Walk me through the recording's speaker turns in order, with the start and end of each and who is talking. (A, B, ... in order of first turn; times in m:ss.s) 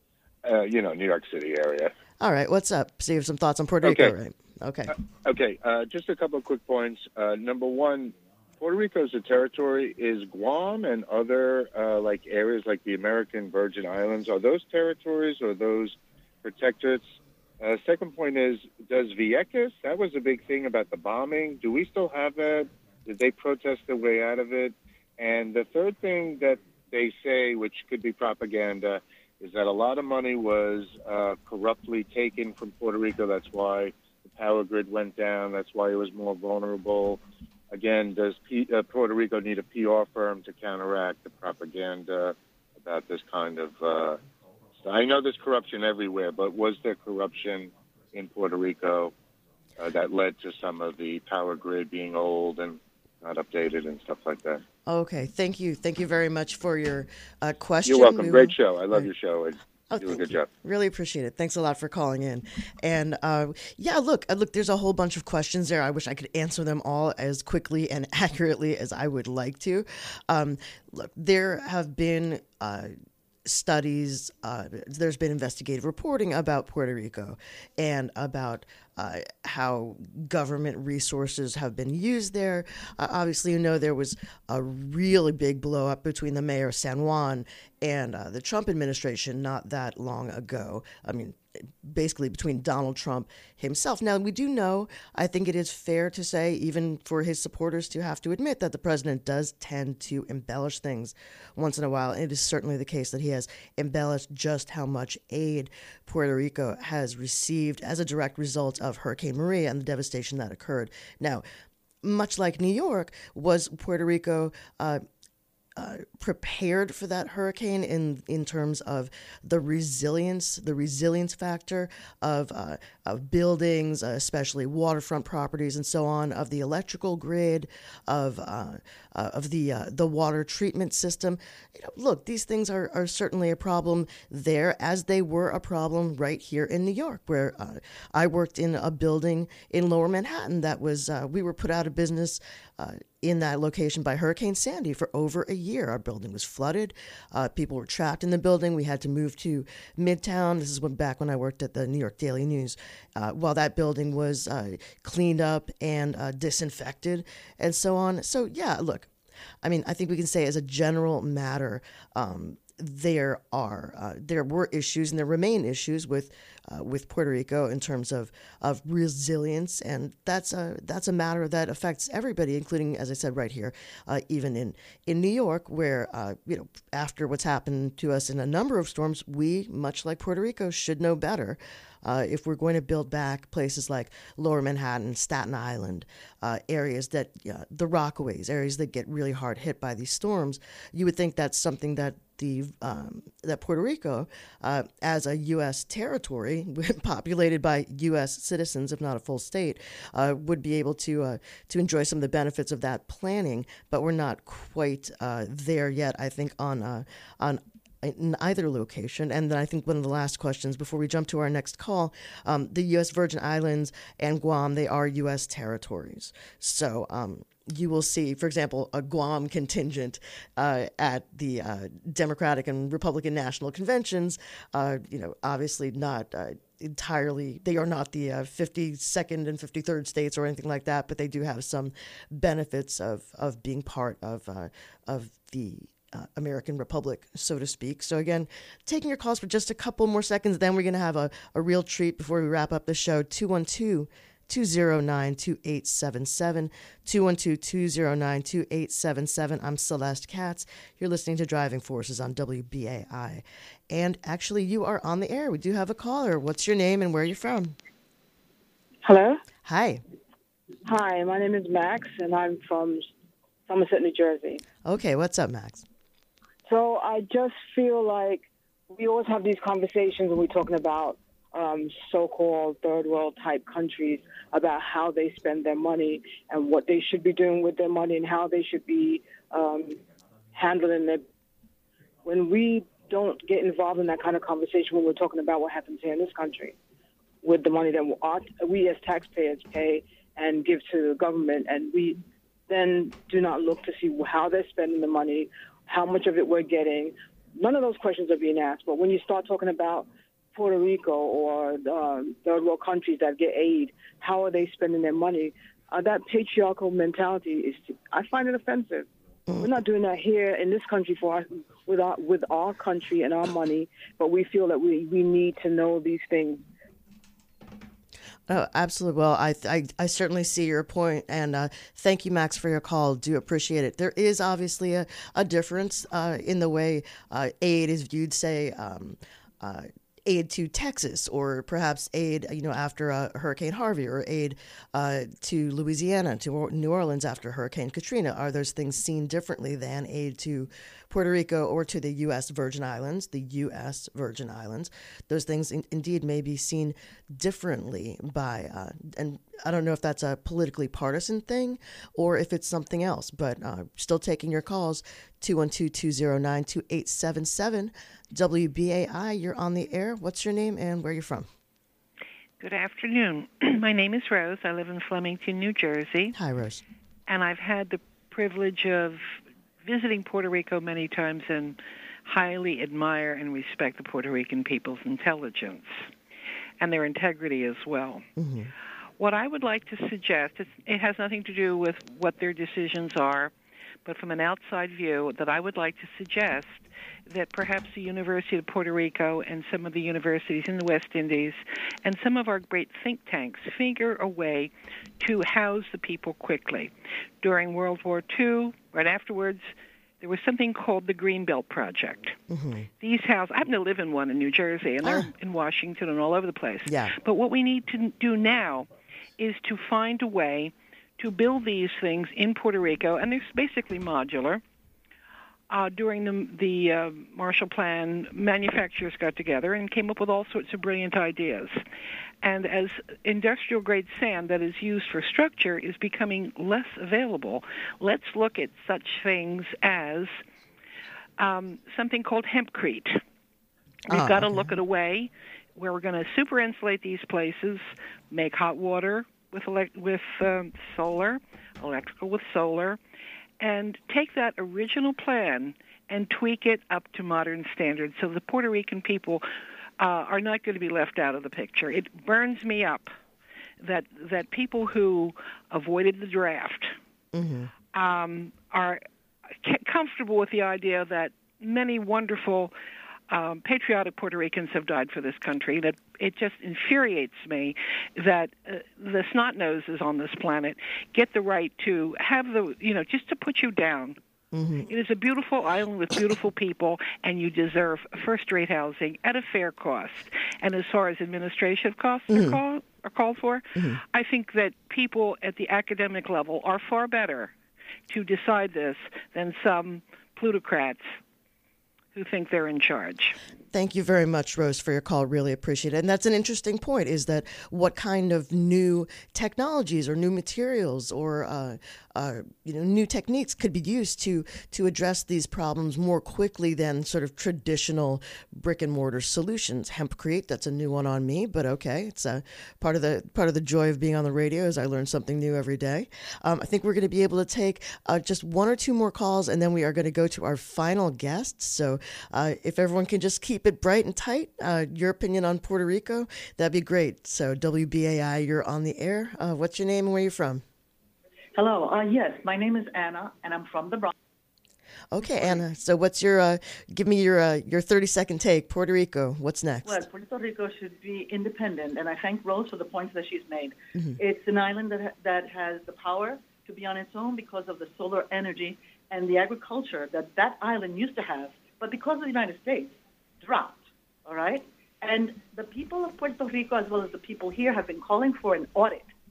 0:00.4-0:01.9 A
0:02.2-0:05.0 B
0:03.8-0:04.1 A
0:05.2-0:44.2 A
0:44.8-0:49.1 A
0:49.8-0:54.6 A
0:54.9-0:59.1 B
0:57.8-1:00.5 A
0:59.9-1:12.9 B
1:13.5-1:51.4 B
1:52.0-1:55.0 B
1:55.8-2:39.1 B
2:39.6-4:17.8 B
4:19.0-4:19.4 C
4:19.6-4:20.0 B
4:20.8-4:23.1 C
4:23.7-4:24.6 C
4:24.8-4:25.8 B
4:26.6-4:40.0 C
4:40.5-4:41.2 C
4:42.2-4:46.8 C
4:47.4-5:09.1 C
5:09.6-5:16.6 C
5:18.5-6:01.5 B
6:02.6-6:06.4 D
6:06.3-6:06.8 B
6:07.3-6:16.1 D
6:16.8-6:18.2 D
6:18.4-6:18.7 B
6:19.2-6:23.5 D
6:24.0-6:42.4 D
6:42.5-6:42.9 B
6:43.0-6:54.6 D
6:45.0-6:45.3 B
6:46.8-6:47.1 B
6:55.7-7:01.8 D
7:02.4-7:10.4 D
7:11.4-7:13.2 D
7:14.1-7:14.7 B
7:14.1-7:23.0 D
7:23.6-7:29.4 D
7:30.0-7:33.1 D
7:33.8-7:37.0 D
7:37.3-7:37.7 B
7:37.9-7:39.0 D
7:39.6-7:42.7 D
7:43.3-7:54.2 D
7:54.5-7:54.9 B
7:54.9-8:07.5 D
8:02.3-8:02.6 B
8:08.1-8:11.2 D
8:12.2-8:13.4 D
8:13.7-8:50.6 B
8:51.6-8:54.1 E
8:55.1-9:00.0 B
8:59.8-9:19.1 E